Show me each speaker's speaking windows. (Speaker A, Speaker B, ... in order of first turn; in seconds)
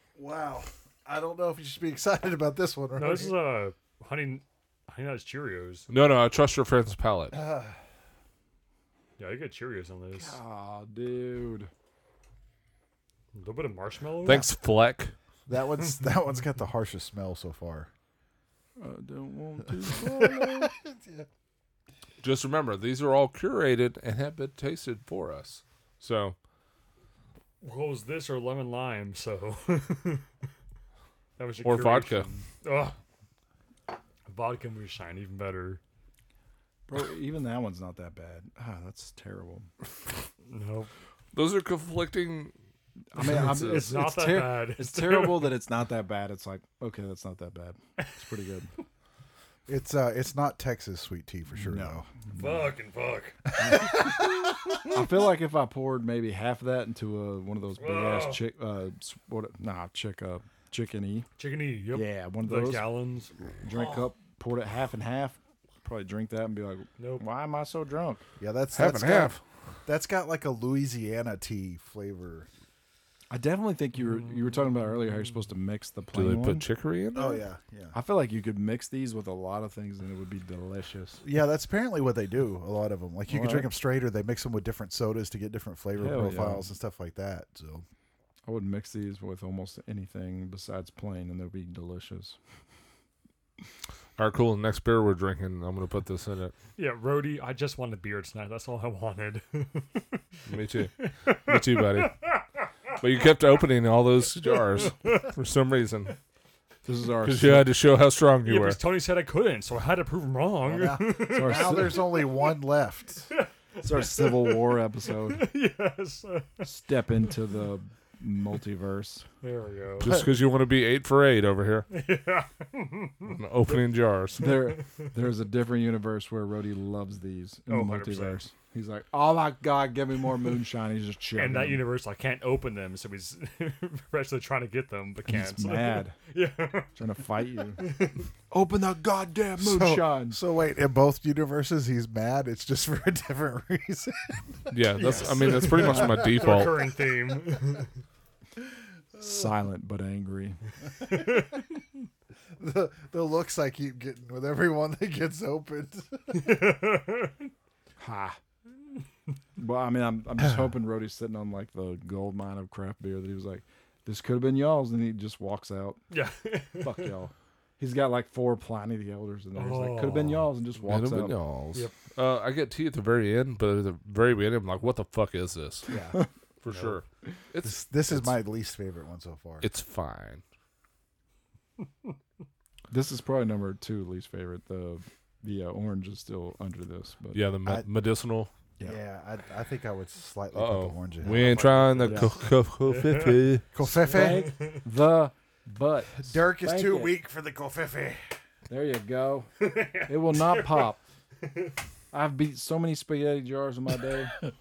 Speaker A: 0.2-3.4, 7.3-7.8, 15.5-17.9, 19.8-21.3, 49.7-52.1, 53.6-55.0, 68.4-72.5, 77.1-78.0, 81.2-87.8, 110.6-113.3, 139.6-144.4, 145.5-146.7, 149.1-149.5, 151.0-151.6, 152.6-156.3, 175.9-176.2, 177.6-179.7, 188.8-192.3, 193.7-194.6, 196.2-198.2
Speaker B: 3.0-5.9, 9.2-10.4, 13.3-14.5, 27.6-30.3, 31.4-33.0, 34.3-35.8, 40.5-40.9, 43.5-45.6, 52.3-53.4, 57.8-58.5, 61.4-64.1, 67.0-67.2, 96.8-100.2, 101.0-102.4, 104.5-105.3, 108.5-112.5, 113.3-116.7, 119.4-120.1, 121.9-125.1, 127.7-128.4, 131.4-138.3, 144.9-147.9, 151.0-151.7, 156.3-157.5, 166.1-167.2, 169.5-170.5, 176.7-177.0, 191.2-194.9, 199.6-201.8
Speaker C: 5.9-7.4, 14.2-15.1, 22.2-26.4, 31.6-32.3, 41.3-42.5, 43.1-43.9, 68.7-69.4, 76.1-77.4, 94.2-96.5, 100.5-102.2, 103.0-106.2, 107.2-108.8, 120.0-121.9, 123.2-124.5, 144.7-146.8, 170.8-175.9, 176.6-178.4, 179.6-180.4, 187.3-188.5, 190.5-193.7
Speaker D: 10.2-11.7, 18.8-20.7, 36.9-39.7, 43.1-48.7, 51.6-52.1, 53.7-54.0, 54.8-61.3, 61.9-63.0, 63.6-68.2, 73.3-76.7, 77.9-81.2, 83.3-83.7, 86.0-86.7, 88.5-92.4, 106.8-107.7, 111.3-112.2, 113.8-115.5, 116.6-119.2, 124.4-131.8, 135.3-136.2, 136.9-137.9, 138.5-140.4, 149.2-150.6, 158.0-158.4, 159.6-166.0, 166.8-171.4, 182.9-187.4, 194.0-197.2, 198.7-201.0, 202.1-204.3